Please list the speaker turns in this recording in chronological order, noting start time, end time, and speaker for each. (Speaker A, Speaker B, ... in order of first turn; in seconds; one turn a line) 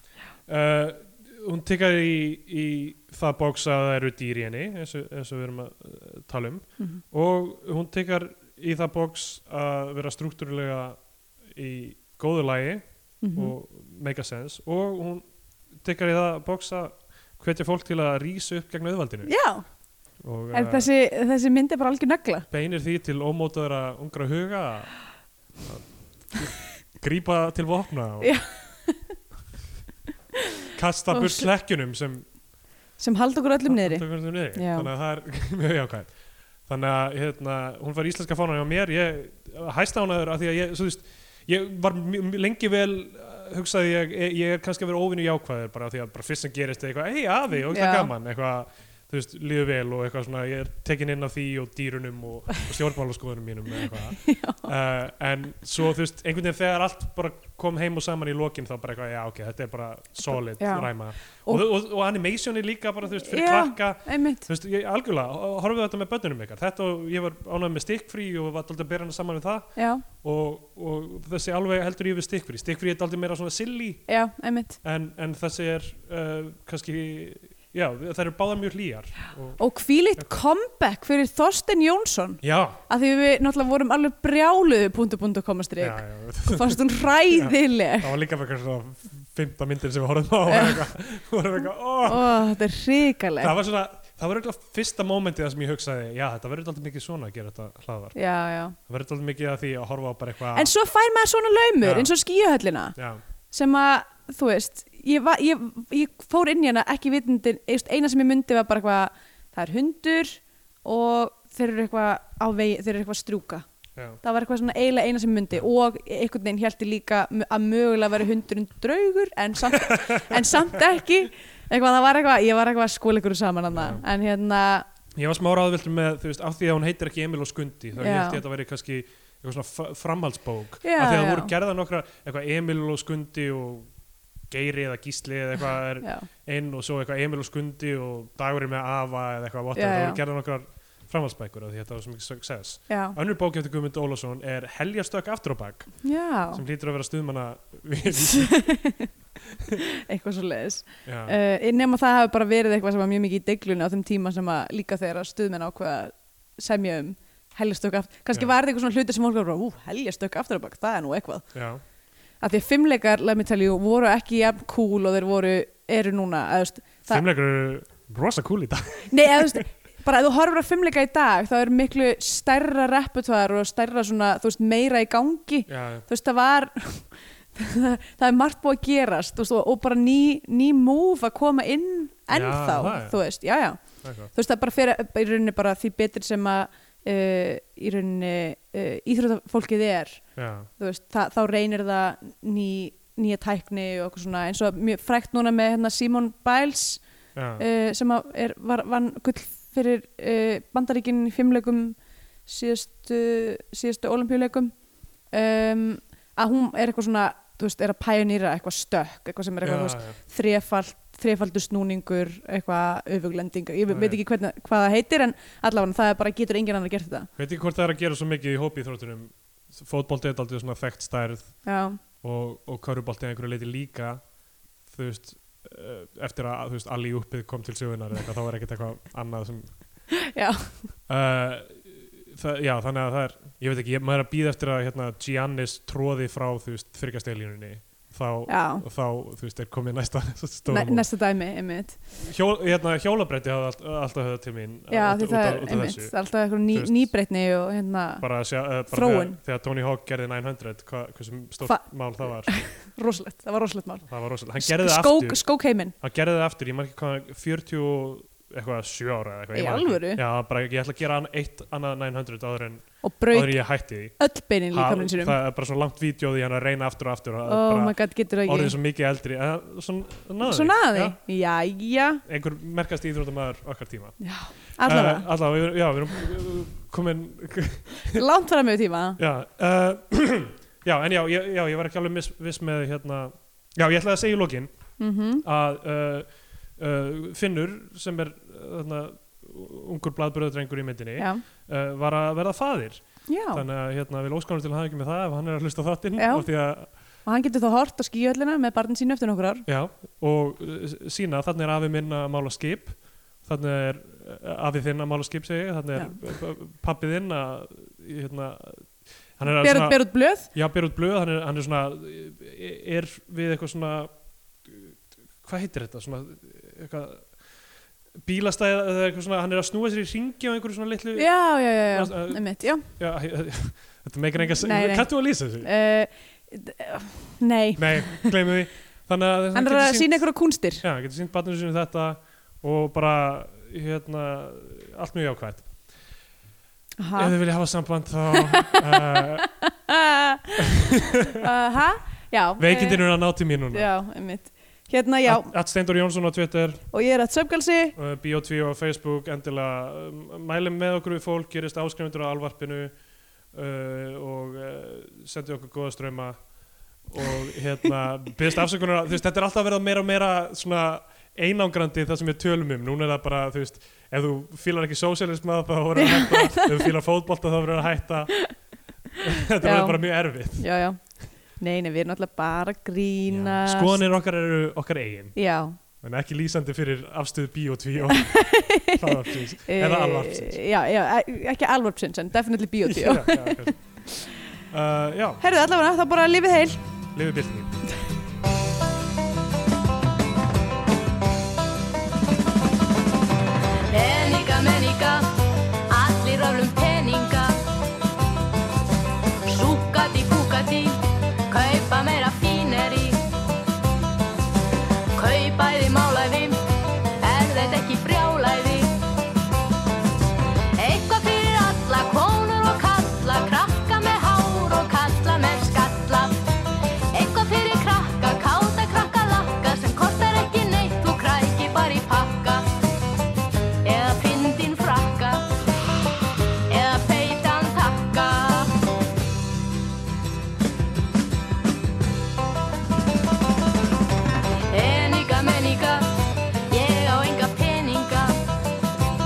Speaker A: 0.5-15.2
Speaker B: 13.2-13.5
Speaker A: 15.8-19.3
Speaker B: 19.2-19.6
Speaker A: 20.2-20.9
Speaker B: 20.5-22.5
Speaker A: 22.5-25.0
Speaker A: 25.6-28.4
Speaker B: 28.2-29.1
Speaker A: 30.7-32.3
Speaker B: 31.1-31.5
Speaker B: 33.0-34.9
Speaker A: 33.6-36.1
Speaker A: 36.6-74.0
Speaker B: 47.7-48.1
Speaker B: 54.2-54.7
Speaker B: 60.3-61.6
Speaker B: 63.2-64.5
Speaker B: 69.8-70.0
Speaker B: 74.1-74.8
Speaker A: 74.8-79.6
Speaker B: 79.6-88.1
Speaker A: 82.4-82.8
Speaker A: 85.8-92.3
Speaker B: 90.5-90.8
Speaker B: 92.0-93.5
Speaker A: 93.4-98.2
Speaker B: 98.1-98.8
Speaker A: 98.9-100.7
Speaker B: 100.5-102.9
Speaker A: 101.8-102.1
Speaker A: 103.0-103.2
Speaker B: 103.5-113.6
Speaker A: 114.0-114.2
Speaker B: 114.2-124.8
Speaker A: 119.7-120.8
Speaker A: 123.7-124.0
Speaker A: 125.1-133.9
Speaker B: 128.0-128.4
Speaker B: 130.8-131.5
Speaker A: 134.5-148.6
Speaker B: 136.0-136.3
Speaker B: 139.7-140.2
Speaker B: 142.9-143.2
Speaker B: 146.0-146.6
Speaker B: 148.1-149.1
Speaker B: 149.9-161.4
Speaker A: 151.0-151.3
Speaker A: 161.5-161.8
Speaker B: 162.4-167.2
Speaker A: 167.1-169.6
Speaker B: 169.1-190.2
Speaker A: 175.7-176.1
Speaker A: 182.3-183.2
Speaker A: 184.0-184.3
Speaker A: 190.3-190.7
Speaker B: 190.8-197.0
Speaker A: 197.3-197.6
Speaker B: 197.6-204.7
Speaker B: 205.3-217.3
Speaker A: 209.6-210.2
Speaker A: 213.9-214.2
Speaker A: 217.4-221.7
Speaker B: 221.6-222.0
Speaker A: 222.2-224.2
Speaker A: 224.9-230.1
Speaker B: 230.2-230.9
Speaker A: 231.1-241.1
Speaker B: 238.5-238.8
Speaker B: 240.7-242.0
Speaker A: 242.1-247.1
Speaker B: 244.9-248.2
Speaker A: 248.2-252.6
Speaker B: 248.9-249.4
Speaker B: 251.6-254.1
Speaker A: 254.1-255.4
Speaker B: 254.6-255.9
Speaker A: 256.0-271.2
Speaker B: 259.5-260.2
Speaker B: 263.0-265.4
Speaker B: 267.5-268.7
Speaker B: 270.4-272.2
Speaker A: 272.2-274.2
Speaker B: 274.2-275.3
Speaker A: 274.8-278.2
Speaker B: 278.0-279.2
Speaker A: 279.2-284.7
Speaker B: 285.0-285.4
Speaker A: 285.4-296.9
Speaker B: 291.2-291.4
Speaker B: 293.3-293.6
Speaker B: 296.2-299.6
Speaker A: 299.7-314.1
Speaker B: 309.4-310.5
Speaker A: 314.6-317.3
Speaker A: 318.2-325.7
Speaker B: 321.1-322.9
Speaker B: 324.6-328.3
Speaker A: 327.8-330.3
Speaker B: 329.5-330.8
Speaker A: 330.8-335.7
Speaker B: 337.0-337.3
Speaker A: 337.1-339.5
Speaker B: 338.3-345.5
Speaker A: 340.6-341.4
Speaker A: 342.6-343.9
Speaker A: 345.2-346.8
Speaker B: 346.9-348.0
Speaker A: 347.9-352.9
Speaker A: 353.5-368.6
Speaker B: 365.9-366.9
Speaker A: 369.2-370.6
Speaker B: 369.6-370.0
Speaker B: 370.5-374.0
Speaker A: 373.3-375.4
Speaker B: 375.3-375.8
Speaker A: 376.0-380.6
Speaker B: 378.1-384.3
Speaker A: 382.8-384.0
Speaker A: 384.7-385.4
Speaker B: 385.4-386.8
Speaker A: 387.1-387.8
Speaker C: 393.9-397.6
Speaker C: 399.4-403.2
Speaker C: 405.1-406.6
Speaker C: 407.2-409.0
Speaker C: 410.8-416.4
Speaker C: 417.1-422.7
Speaker C: 423.8-425.5
Speaker C: 426.7-428.8
Speaker C: 434.7-436.2
Speaker C: 436.7-438.4